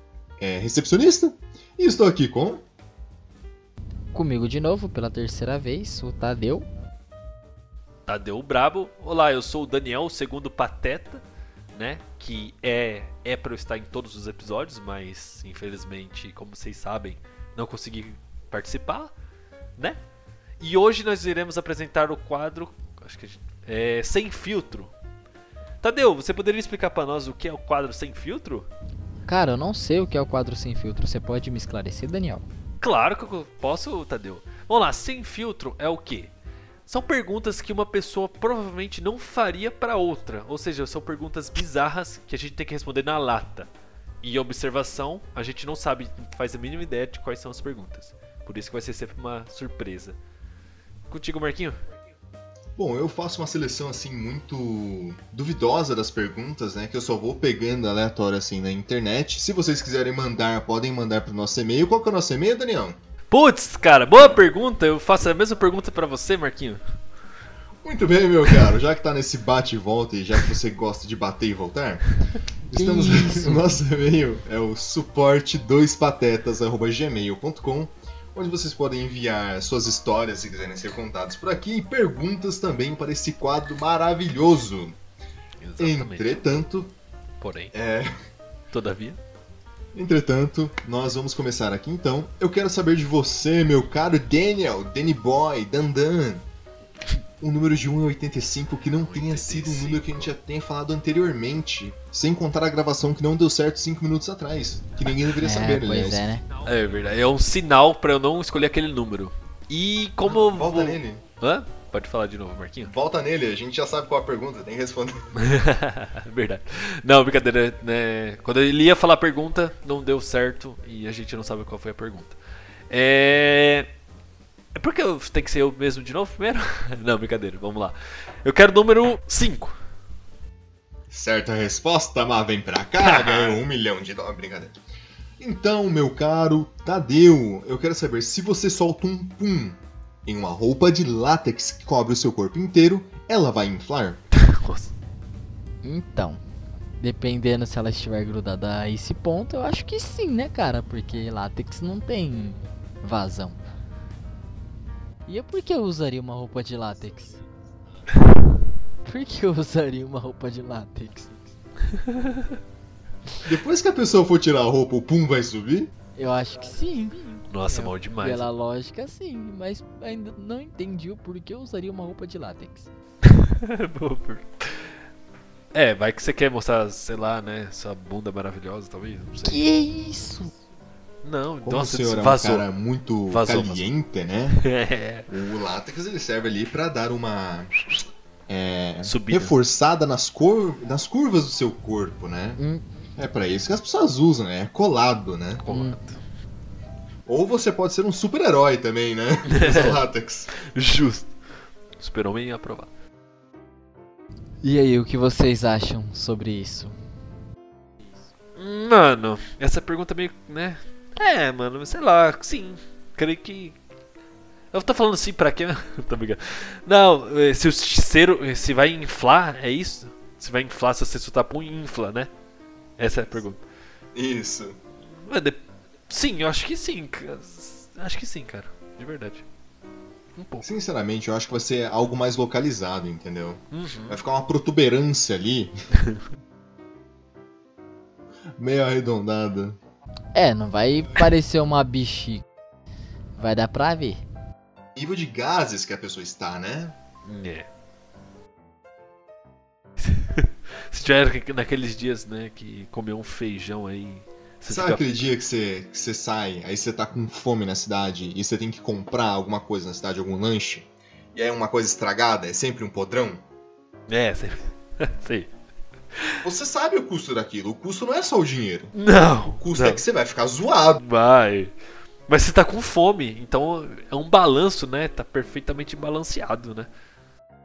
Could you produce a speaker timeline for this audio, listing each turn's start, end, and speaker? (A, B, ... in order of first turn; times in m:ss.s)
0:00.4-0:02.6 A
0:04.1-0:06.7 B
0:08.1-0:11.2 C
0:11.7-0:19.1 C
0:20.6-0:24.9 C
0:25.8-0:28.7 C
0:29.3-0:32.4 B
0:32.8-0:36.3 C
0:36.9-0:43.7 C
0:44.2-0:50.2 C
0:51.1-0:51.8 C
0:52.8-1:03.0 A
1:03.3-1:06.8 C
1:07.8-1:12.0 A
1:12.6-1:25.0 A
1:12.7-1:13.7 B
1:25.6-1:26.6 C
1:25.8-1:26.9 A
1:27.4-1:27.7 C
1:27.7-1:28.1 A
1:28.7-1:29.2 C
1:29.9-1:36.5 A
1:37.4-1:46.3 A
1:39.0-1:40.3 C
1:45.4-1:46.4 B
1:46.6-1:52.9 C
1:50.3-1:51.2 A
1:52.8-1:55.4 A
1:55.4-2:02.4 C
2:02.9-2:03.9 C
2:04.7-2:09.8 C
2:11.1-2:14.8 A
2:13.0-2:13.6 C
2:15.4-2:24.2 A
2:24.3-2:24.9 C
2:25.8-2:26.4 B
2:27.0-2:33.6 B
2:35.3-2:37.4 B
2:39.0-2:41.5 B
2:42.2-2:42.4 C
2:43.4-2:45.9 A
2:46.2-2:52.9 B
2:47.5-2:48.4 C
2:53.2-2:54.9 C
2:55.7-2:59.6 C
2:59.4-3:00.6 B
3:01.2-3:02.6 C
3:01.6-3:04.6 A
3:03.3-3:03.9 C
3:04.5-3:05.3 C
3:05.3-3:07.7 A
3:08.5-3:12.6 A
3:09.0-3:09.5 C
3:12.6-3:12.8 B
3:13.2-3:15.6 A
3:15.6-3:16.2 C
3:15.7-3:16.0 B
3:17.2-3:20.5 A
3:19.4-3:20.0 C
3:20.5-3:21.3 C
3:22.0-3:22.9 C
3:24.6-3:27.0 B
3:28.6-3:33.8 C
3:34.7-3:42.3 C
3:43.0-3:43.6 C
3:44.1-3:44.8 A
3:45.2-3:49.4 C
3:50.4-3:50.7 C
3:50.6-3:55.7 A
3:53.7-3:54.2 C
3:58.6-3:59.8 A
4:00.3-4:02.4 B
4:03.4-4:04.2 B
4:05.0-4:07.0 A
4:07.2-4:07.7 C
4:10.0-4:15.2 C
4:14.7-4:23.4 A
4:24.1-4:25.5 C
4:26.1-4:26.4 C
4:26.4-4:28.9 A
4:28.9-4:30.0 C
4:29.6-4:31.0 A
4:31.0-4:31.7 C
4:32.3-4:36.9 C